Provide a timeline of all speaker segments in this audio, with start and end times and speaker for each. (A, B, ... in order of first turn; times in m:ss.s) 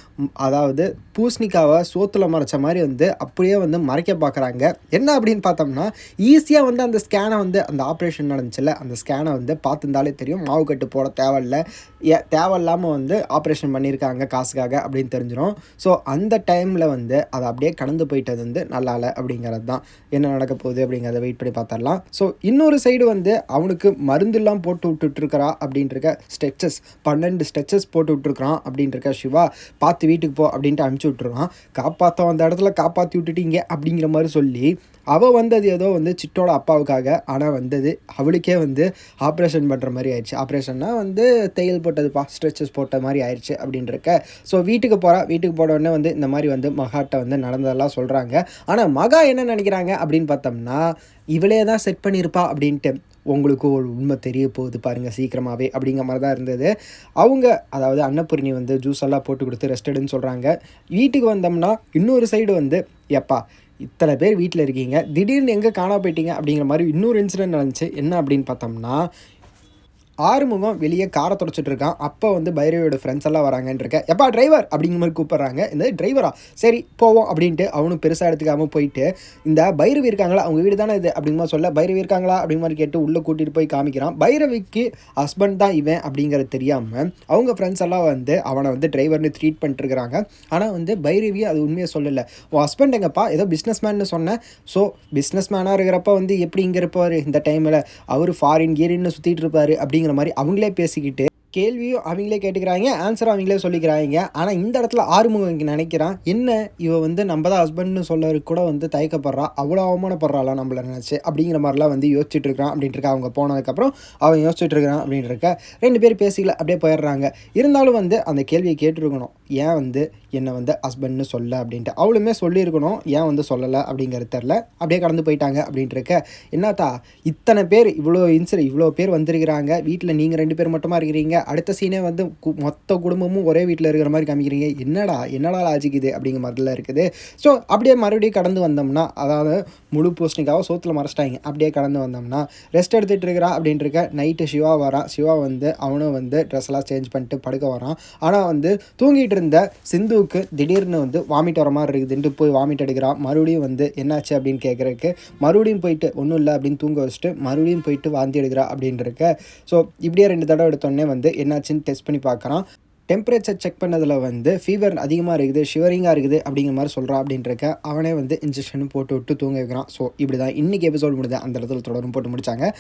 0:00.4-0:11.6 A
0:12.1-0:50.8 A
0:51.4-0:56.7 A
0:57.2-1:09.0 A
1:10.3-2:52.7 A